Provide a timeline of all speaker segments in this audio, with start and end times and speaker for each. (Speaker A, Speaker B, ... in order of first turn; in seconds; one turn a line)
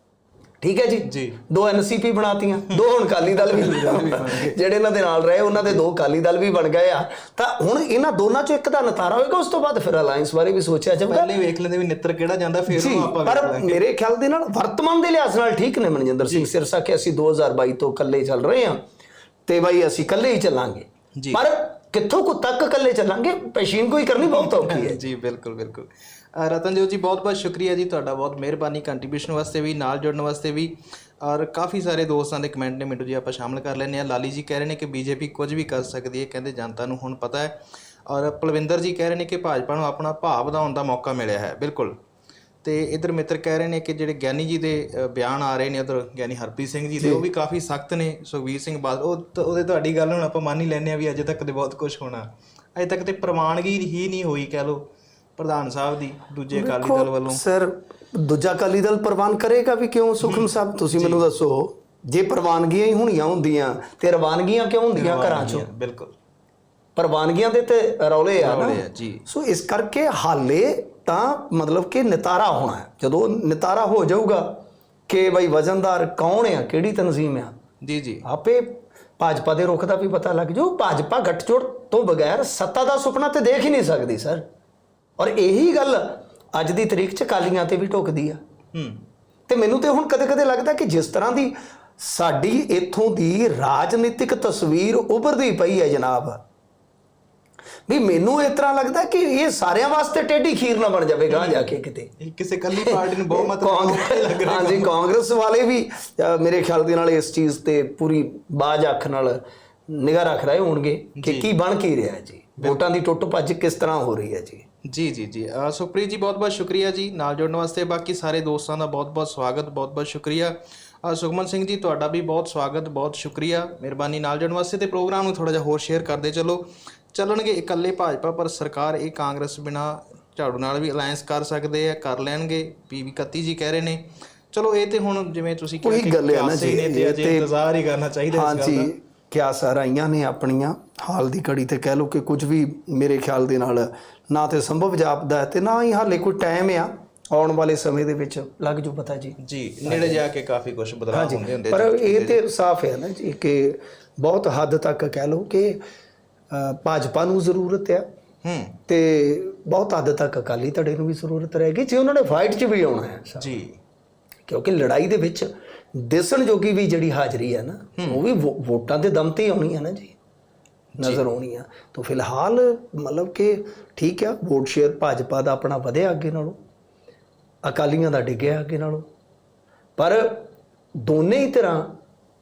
Speaker A: 0.6-11.3
Speaker B: 1.1-1.4
Speaker B: 3.3-4.6
Speaker B: 11.1-13.8
Speaker A: 12.7-18.8
Speaker A: 19.5-25.0
Speaker B: 21.2-21.4
Speaker B: 24.2-42.0
Speaker B: 42.6-54.9
Speaker A: 47.0-47.2
Speaker B: 55.4-57.4
Speaker A: 56.5-65.7
Speaker B: 60.2-61.2
Speaker B: 65.0-66.1
Speaker A: 67.0-74.5
Speaker B: 68.4-69.2
Speaker A: 75.1-77.5
Speaker B: 77.8-78.2
Speaker A: 78.2-84.4
Speaker A: 85.2-88.4
Speaker B: 88.7-89.0
Speaker A: 89.5-96.4
Speaker A: 97.9-102.1
Speaker B: 101.3-101.7
Speaker B: 102.2-104.9
Speaker A: 102.8-114.7
Speaker B: 111.2-111.5
Speaker B: 114.9-138.9
Speaker A: 135.8-137.5
Speaker A: 138.3-150.2
Speaker B: 149.4-152.4
Speaker A: 151.1-155.8
Speaker A: 156.5-158.1
Speaker B: 158.4-158.8
Speaker A: 158.9-163.5
Speaker B: 163.4-163.8
Speaker A: 164.5-170.2
Speaker B: 170.9-171.2
Speaker A: 171.0-176.6
Speaker A: 177.6-179.1
Speaker A: 180.0-180.5
Speaker A: 181.0-181.9